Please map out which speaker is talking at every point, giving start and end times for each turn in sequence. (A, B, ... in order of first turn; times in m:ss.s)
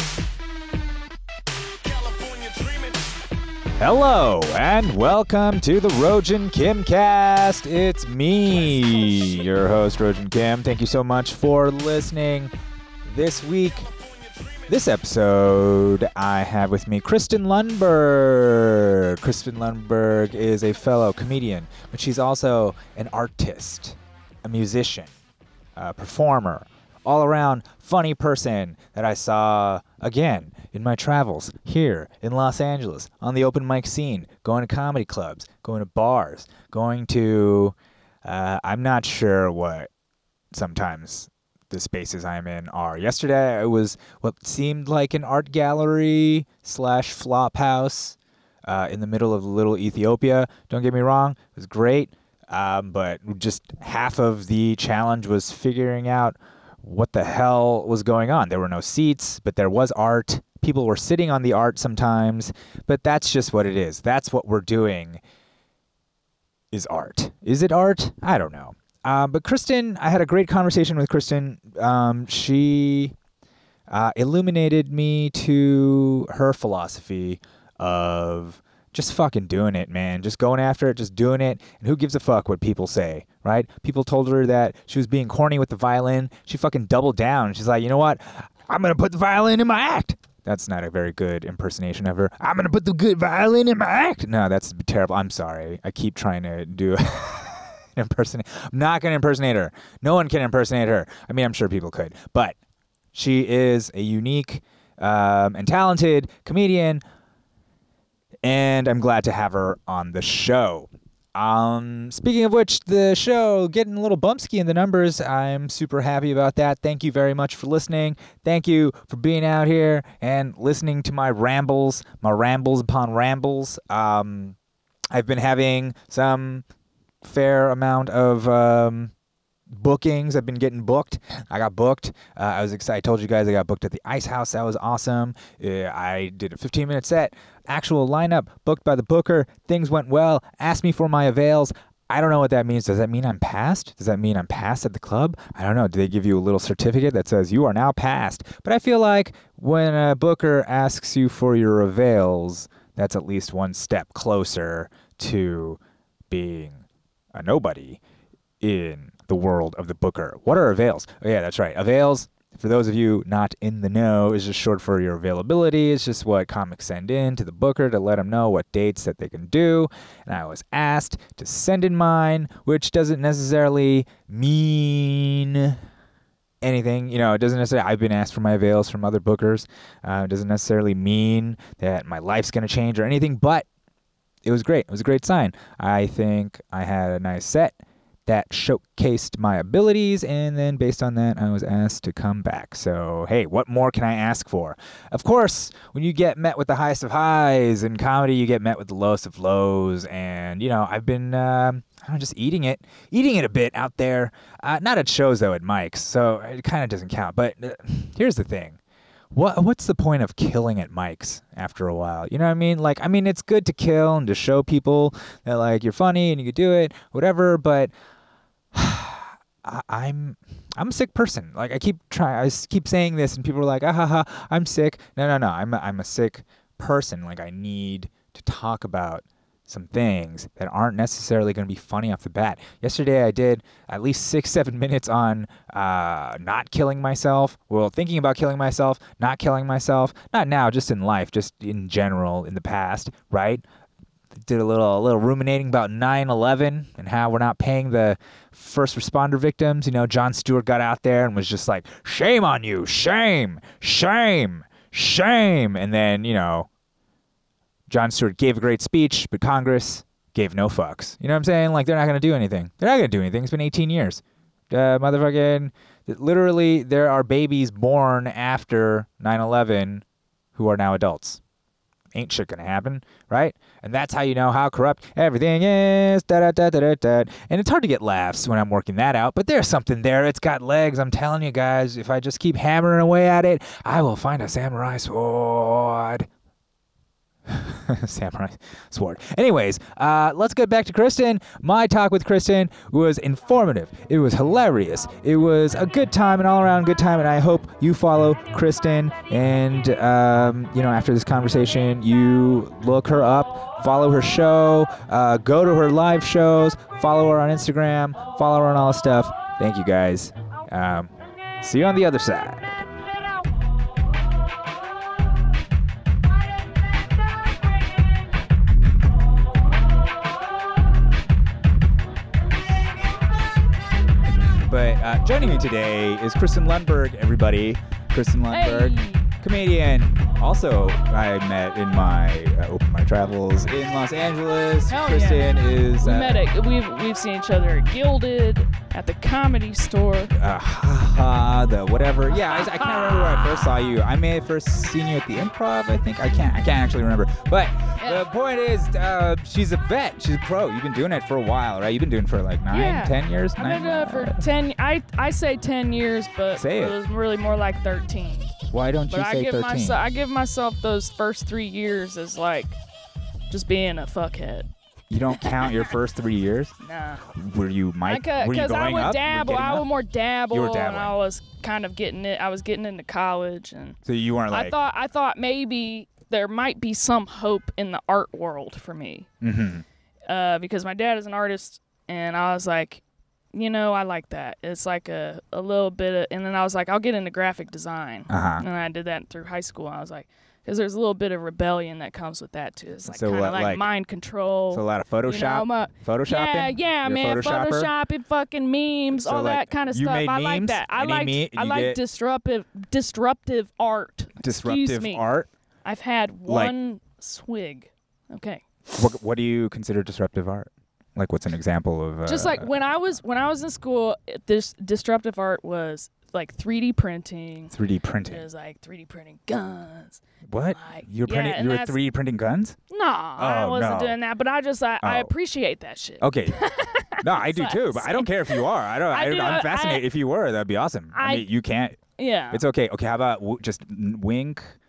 0:01.9-0:03.0 A
0:03.8-0:12.5 B
0:13.0-0:13.9 B
0:13.8-0:14.7 A
0:14.7-0:25.1 B
0:25.8-0:39.9 B
0:40.5-1:05.2 B
1:06.7-1:13.2 B
1:13.9-1:42.6 B
1:43.1-1:47.0 B
1:48.4-2:04.6 B
2:05.1-2:06.6 B
2:07.2-2:09.1 B
2:09.7-2:36.8 B
2:37.3-2:38.0 B
2:38.6-2:55.8 B
2:56.6-3:03.7 B
3:04.4-3:28.8 B
3:29.3-3:37.9 B
3:38.7-4:03.6 B
4:04.3-4:16.7 B
4:17.9-4:30.0 B
4:30.6-4:31.4 B
4:32.1-4:46.3 B
4:47.5-5:12.9 B
5:24.7-5:36.4 B
5:28.5-5:29.3 C
5:34.9-5:40.3 C
5:40.3-5:54.4 B
5:42.3-5:43.9 C
5:48.0-5:48.2 C
5:52.7-5:58.5 C
5:56.5-5:57.0 B
5:58.7-6:00.0 B
5:59.1-6:02.8 C
6:03.5-6:04.7 C
6:05.1-6:06.8 B
6:05.4-6:05.9 C
6:06.8-6:07.2 C
6:07.3-6:09.9 B
6:08.0-6:14.0 C
6:10.5-6:11.2 B
6:14.0-6:14.8 B
6:14.5-6:19.3 C
6:19.4-6:19.8 B
6:20.3-6:23.0 C
6:23.5-6:45.2 C
6:28.3-6:28.6 B
6:33.0-6:33.9 B
6:34.7-6:37.9 B
6:39.1-6:42.0 B
6:44.4-6:45.5 B
6:45.8-6:48.6 C
6:46.5-6:46.8 B
6:49.0-6:52.7 B
6:52.2-6:57.7 C
6:57.7-6:58.4 B
6:58.3-7:00.2 C
7:00.4-7:02.8 B
7:00.7-7:02.0 C
7:02.9-7:10.0 C
7:03.4-7:04.2 B
7:05.0-7:05.3 B
7:06.2-7:06.6 B
7:07.2-7:14.8 B
7:11.1-7:11.5 C
7:12.2-7:12.6 C